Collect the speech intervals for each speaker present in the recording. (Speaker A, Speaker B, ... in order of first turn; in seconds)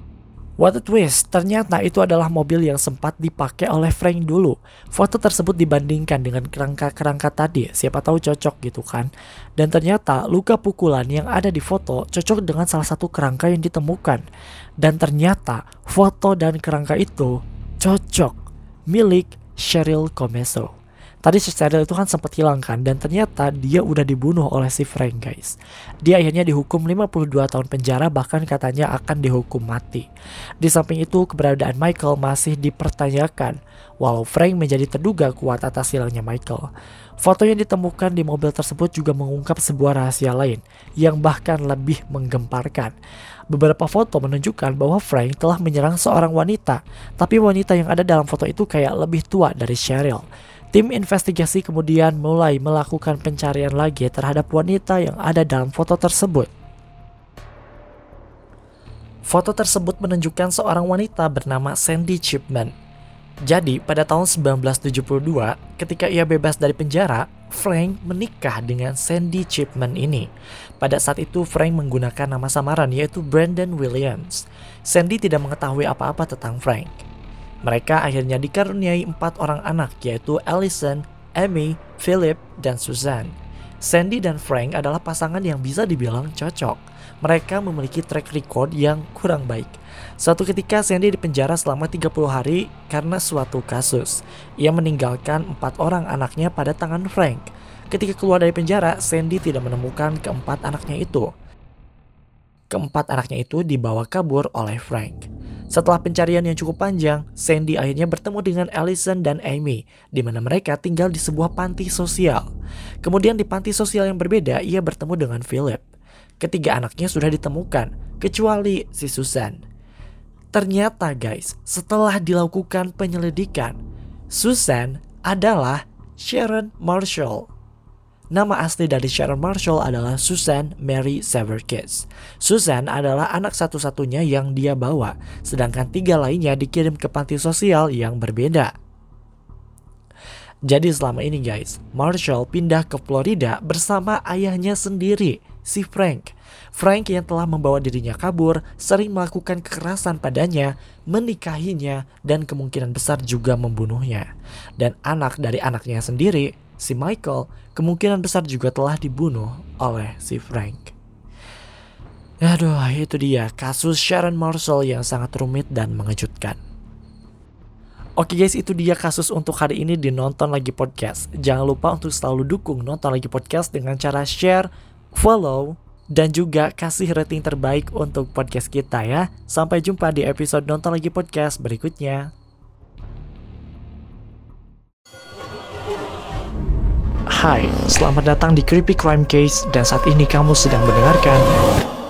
Speaker A: 0.6-14.2, 14.8-18.4, 18.9-20.7, 21.2-30.1, 30.6-36.7, 37.2-42.9, 43.5-56.5, 59.2-62.7, 63.4-70.3, 70.8-77.0, 77.6-101.3, 102.7-112.5, 113.0-115.8, 116.4-119.6, 120.5-123.8, 124.3-127.5, 128.3-138.7, 140.7-160.9, 162.4-166.6, 168.2-182.3, 187.3-191.5